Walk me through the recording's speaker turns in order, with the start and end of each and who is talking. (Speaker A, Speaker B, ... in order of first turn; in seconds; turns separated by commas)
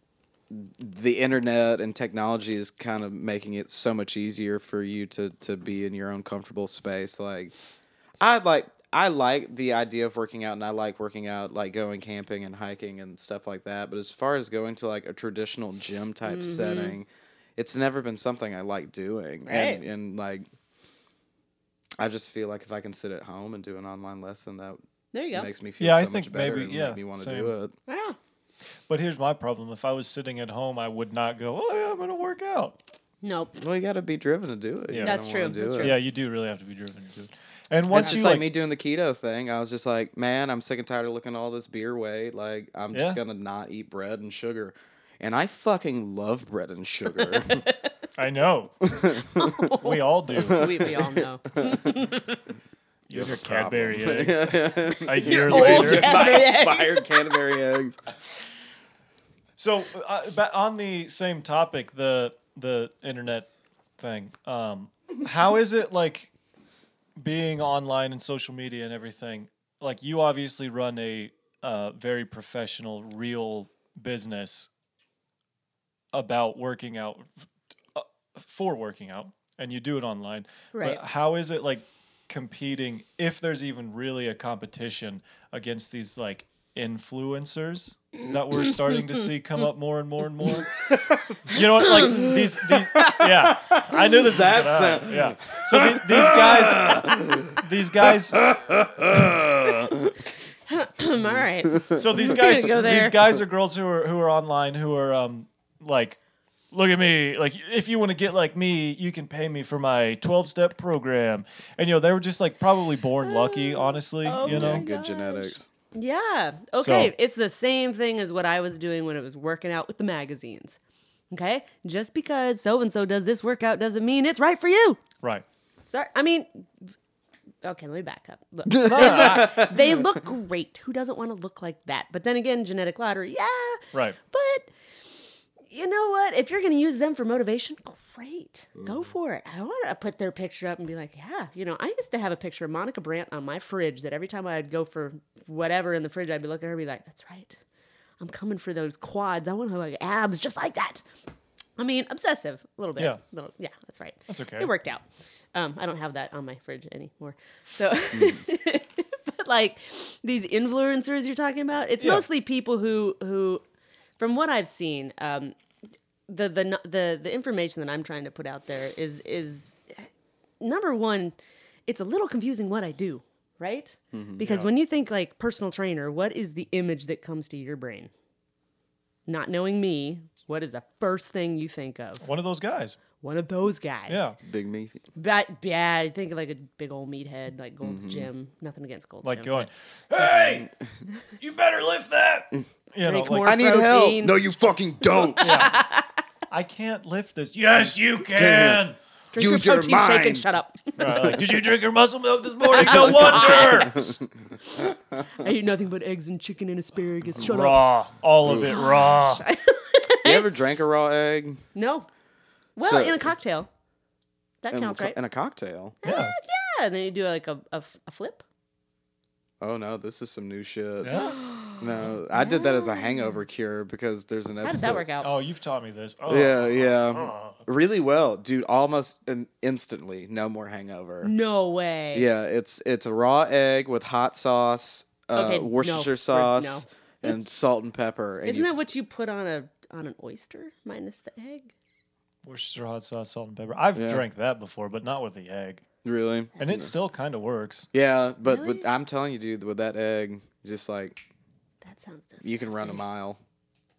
Speaker A: 0.5-7.5, Speaker A: 8.2-20.4, Speaker B: 16.3-16.9, Speaker B: 19.4-19.8, Speaker A: 22.0-24.8, Speaker B: 25.1-25.5, Speaker A: 25.3-27.7, Speaker C: 25.8-27.5, Speaker B: 27.9-28.2, Speaker C: 28.9-32.8, Speaker B: 33.2-33.5, Speaker A: 33.6-35.9, Speaker C: 34.9-35.2, Speaker B: 35.0-36.0, Speaker C: 35.8-38.5, Speaker A: 37.9-47.6, Speaker B: 37.9-38.2, Speaker C: 42.9-43.2, Speaker B: 47.1-47.9, Speaker C: 48.2-48.9, Speaker A: 48.8-49.7, Speaker B: 49.3-52.4, Speaker C: 49.8-50.7, Speaker A: 50.4-51.8, Speaker C: 53.1-56.3, Speaker A: 53.1-58.0, Speaker B: 55.0-57.6, Speaker C: 59.6-66.3, Speaker C: 67.2-74.7, Speaker C: 76.1-90.7, Speaker B: 80.7-81.0, Speaker A: 90.7-92.3, Speaker C: 91.5-98.5, Speaker B: 93.0-93.3, Speaker A: 93.0-100.2, Speaker B: 100.7-103.3, Speaker A: 101.7-102.0, Speaker C: 101.9-106.2, Speaker C: 106.7-114.8, Speaker B: 113.2-120.8, Speaker A: 114.4-115.7, Speaker C: 116.8-117.1, Speaker B: 121.3-125.0, Speaker B: 125.9-126.6, Speaker B: 127.6-134.7, Speaker A: 128.8-129.9, Speaker C: 128.8-129.7, Speaker C: 133.9-134.2, Speaker B: 135.7-147.6, Speaker B: 148.2-151.0, Speaker B: 151.8-155.0, Speaker C: 154.3-154.7, Speaker B: 155.5-163.6, Speaker A: 158.1-158.4, Speaker C: 162.0-162.2, Speaker B: 164.2-165.6, Speaker B: 166.3-170.1, Speaker B: 170.6-171.3, Speaker B: 171.9-178.1, Speaker A: 174.1-174.4, Speaker C: 174.4-174.7, Speaker B: 179.3-182.2, Speaker C: 182.2-183.0, Speaker B: 183.2-184.2, Speaker C: 184.1-184.4, Speaker A: 184.4-185.0, Speaker B: 185.2-189.7, Speaker A: 187.8-188.3, Speaker C: 189.2-190.7, Speaker C: 191.4-193.5, Speaker B: 193.0-194.4, Speaker A: 193.4-195.7, Speaker C: 195.4-195.8, Speaker B: 195.4-196.0, Speaker C: 196.5-199.0, Speaker A: 198.3-198.8, Speaker B: 199.3-201.3, Speaker A: 199.3-200.5, Speaker C: 201.0-204.1, Speaker B: 202.7-204.1, Speaker A: 203.9-204.2, Speaker B: 204.7-207.8, Speaker C: 207.4-209.4, Speaker A: 208.4-208.7, Speaker B: 208.7-210.5, Speaker A: 210.2-211.6, Speaker B: 211.7-212.1, Speaker B: 212.8-213.7, Speaker A: 212.8-213.3, Speaker B: 214.6-215.2, Speaker A: 214.7-215.9, Speaker B: 216.0-218.4, Speaker C: 216.0-216.3, Speaker A: 219.6-221.2, Speaker C: 221.0-221.4, Speaker B: 221.1-223.4, Speaker A: 221.8-225.1, Speaker B: 224.6-225.3, Speaker C: 225.2-227.6, Speaker A: 226.3-231.3, Speaker B: 231.2-232.3, Speaker A: 232.1-238.7, Speaker B: 235.3-237.4, Speaker B: 238.4-241.7, Speaker C: 242.4-245.8, Speaker A: 243.9-244.2, Speaker A: 246.0-246.9, Speaker C: 246.6-247.9, Speaker A: 247.9-251.2, Speaker B: 248.4-248.8, Speaker B: 251.8-253.0, Speaker A: 252.4-253.4